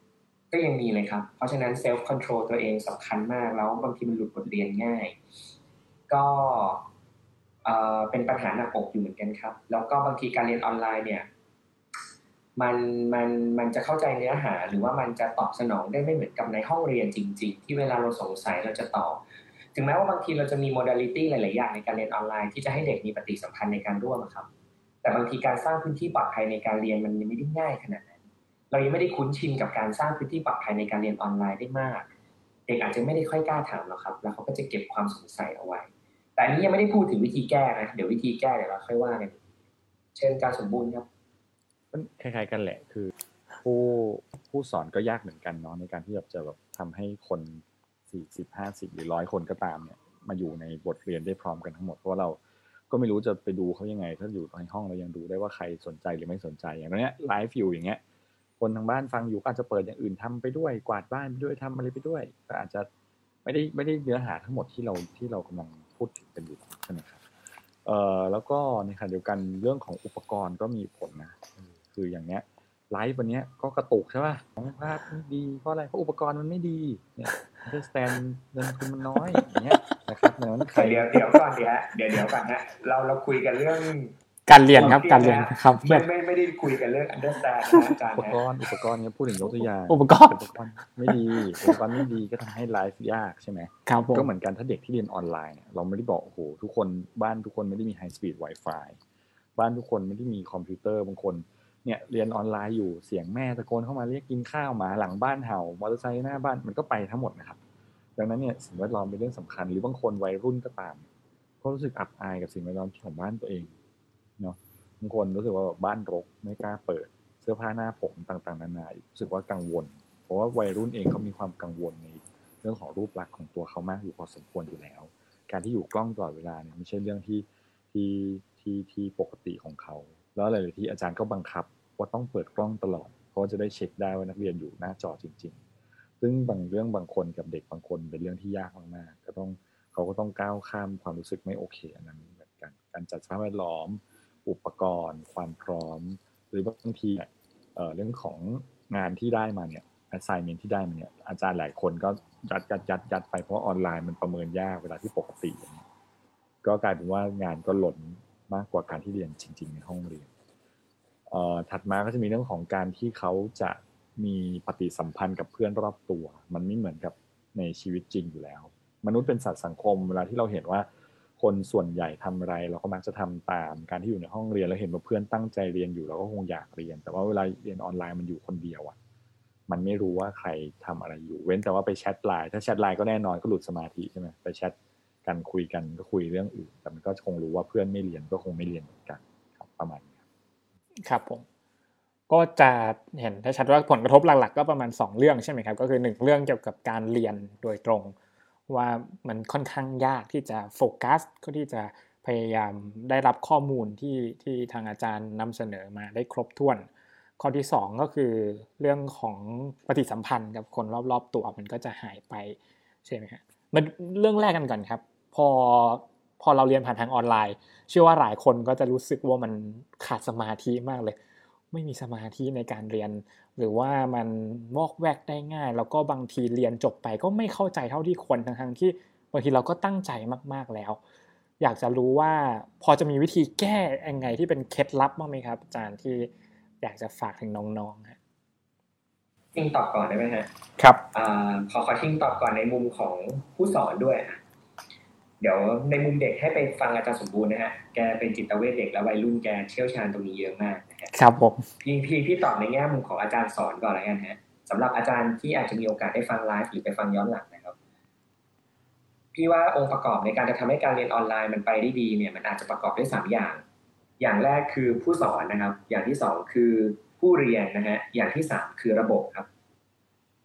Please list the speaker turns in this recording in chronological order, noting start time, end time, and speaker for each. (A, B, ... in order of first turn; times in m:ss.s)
0:00.5-0:05.2 A
0:06.1-0:06.9 A
0:07.6-0:11.3 A
0:12.6-0:19.2 A
0:19.7-0:24.5 A
0:25.0-0:32.1 A
0:32.7-0:39.4 A
0:40.1-0:41.1 A
0:41.9-0:43.1 B
0:43.6-0:52.4 B
0:52.9-0:58.0 B
0:58.6-1:02.9 B
1:03.4-1:07.2 B
1:07.8-1:21.2 B
1:20.7-1:24.2 A
1:24.5-1:26.0 C
1:24.7-1:28.4 A
1:28.1-1:39.0 B
1:29.9-1:30.4 C
1:31.1-1:31.8 C
1:33.9-1:34.3 C
1:39.6-1:47.6 B
1:48.2-1:51.1 B
1:51.6-1:53.7 B
1:54.4-2:15.6 B
2:16.2-2:35.8 B
2:36.6-2:40.3 B
2:41.3-2:59.0 B
2:59.7-3:10.2 B
3:11.0-3:11.4 C
3:12.3-3:18.1 C
3:18.7-3:26.9 C
3:27.4-3:41.2 C
3:41.7-3:51.0 C
3:51.6-3:56.3 C
3:56.8-3:58.2 C
3:59.5-4:00.5 A
4:00.8-4:01.0 C
4:01.1-4:04.4 A
4:05.4-4:11.1 A
4:11.1-4:11.7 C
4:11.8-4:17.8 A
4:19.3-4:23.6 A
4:24.2-4:29.5 A